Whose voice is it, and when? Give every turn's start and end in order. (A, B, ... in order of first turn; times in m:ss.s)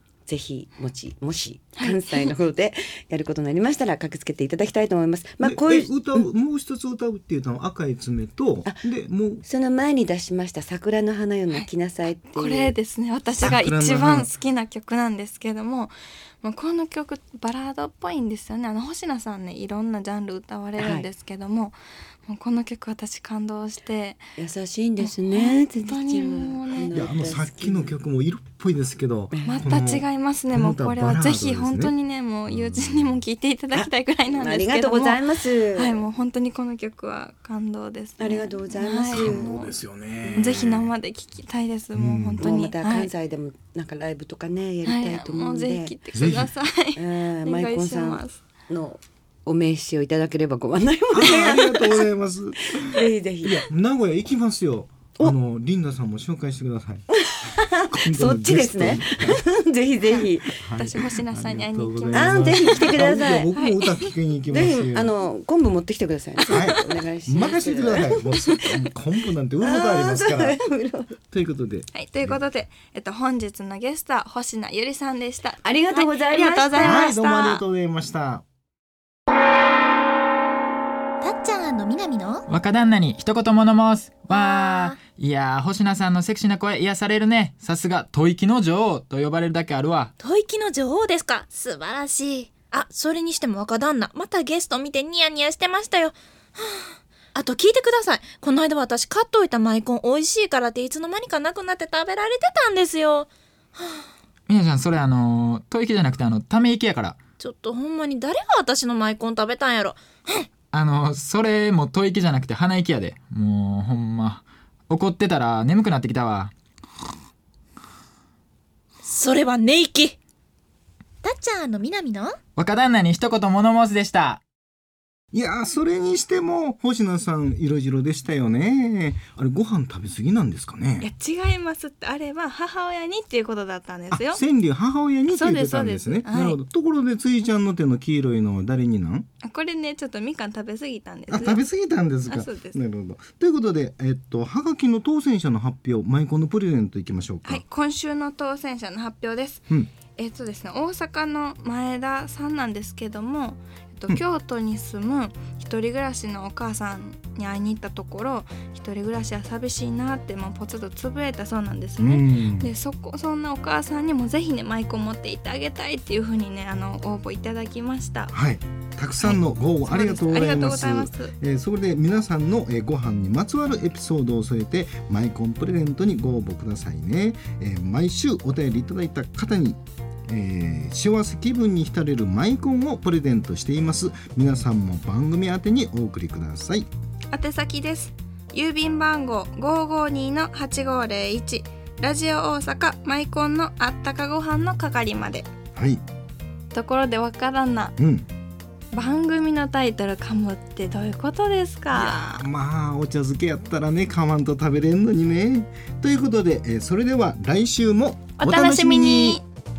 0:00.3-0:06.2 A
0:01.8-0:02.3 B
0:05.4-0:09.4 C
0:09.4-0:12.7 A
0:12.3-0:24.2 B
0:13.4-0:14.3 C
0:20.8-0:21.1 A
0:24.4-0:28.0 A
0:25.0-0:27.0 B
0:26.9-0:31.9 C
0:29.3-0:29.6 A
0:29.4-0:39.7 B
0:32.5-0:33.1 C
0:33.7-0:36.0 A
0:38.2-0:39.5 A
0:39.1-0:40.9 C
0:40.3-0:43.1 B
0:41.9-0:42.5 C
0:42.4-0:46.0 A
0:44.8-0:48.4 B
0:46.1-0:46.5 C
0:47.0-0:52.0 A
0:51.1-0:57.1 C
0:52.7-0:53.6 A
0:57.2-1:00.6 A
0:57.9-0:59.4 C
1:00.5-1:05.1 C
1:00.8-1:03.9 B
1:02.1-1:03.5 A
1:04.5-1:08.2 A
1:06.5-1:10.6 C
1:09.6-1:11.2 A
1:11.3-1:12.4 C
1:11.9-1:17.1 B
1:15.6-1:17.6 A
1:16.8-1:18.4 C
1:21.2-1:22.4 D
1:22.5-1:30.1 E
1:24.3-1:25.0 D
1:30.2-1:44.0 D
1:44.5-1:47.2 E
1:47.4-1:50.5 D
1:50.7-1:56.5 E
1:59.0-2:00.2 D
2:01.2-2:02.4 D
2:02.6-2:04.4 E
2:05.3-2:11.1 C
2:11.0-2:14.4 B
2:14.1-2:19.3 C
2:15.3-2:16.6 B
2:19.4-2:21.6 B
2:21.3-2:27.6 C
2:22.3-2:22.8 B
2:27.4-2:48.3 B
2:42.0-2:42.7 C
2:48.3-3:06.9 C
2:49.2-2:51.3 B
3:07.3-3:15.5 B
3:15.7-3:16.0 C
3:16.7-3:17.9 B
3:18.0-3:18.3 C
3:18.9-3:22.4 B
3:21.9-3:29.4 C
3:28.4-3:29.4 B